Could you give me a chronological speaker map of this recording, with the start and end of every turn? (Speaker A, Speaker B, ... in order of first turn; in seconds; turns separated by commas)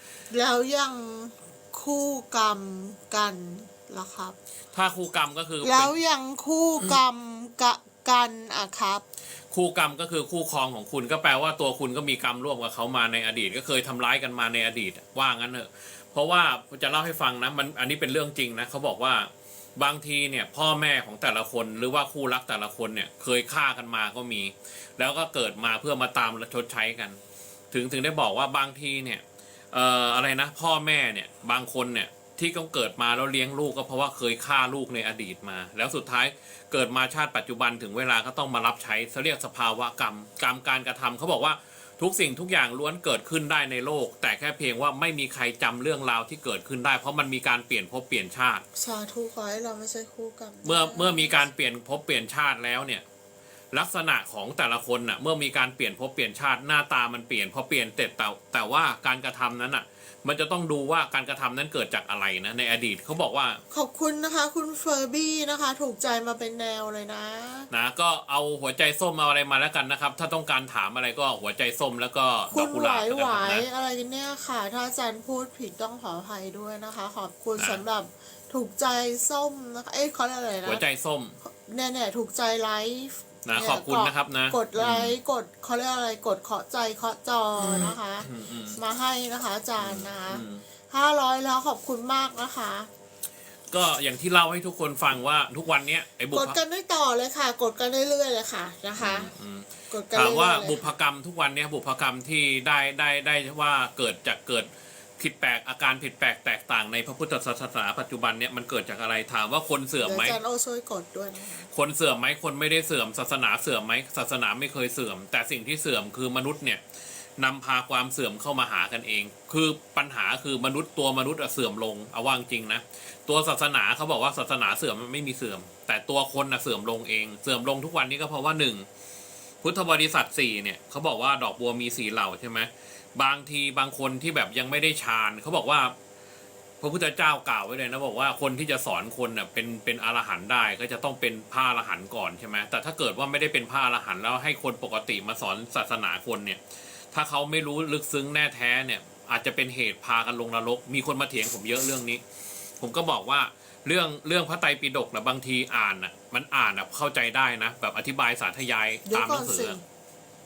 Speaker A: 0.3-4.3, Speaker B: 4.7-6.0, Speaker A: 5.6-9.0, Speaker B: 9.5-27.2, Speaker B: 27.7-48.6, Speaker A: 48.7-51.4, Speaker B: 50.6-53.0, Speaker B: 53.7-63.6, Speaker A: 63.7-67.7, Speaker B: 67.7-73.7, Speaker A: 72.5-80.8, Speaker B: 77.6-77.8, Speaker B: 80.6-81.4, Speaker A: 81.4-92.9, Speaker B: 83.4-85.2, Speaker B: 87.6-88.8, Speaker B: 89.8-90.6, Speaker B: 93.7-96.6, Speaker A: 96.3-99.3, Speaker B: 99.0-110.3, Speaker A: 99.9-100.8, Speaker A: 110.0-111.7, Speaker B: 111.7-116.8, Speaker B: 117.4-128.9, Speaker B: 129.6-135.9, Speaker B: 136.8-152.2, Speaker B: 152.8-159.8, Speaker A: 159.1-159.8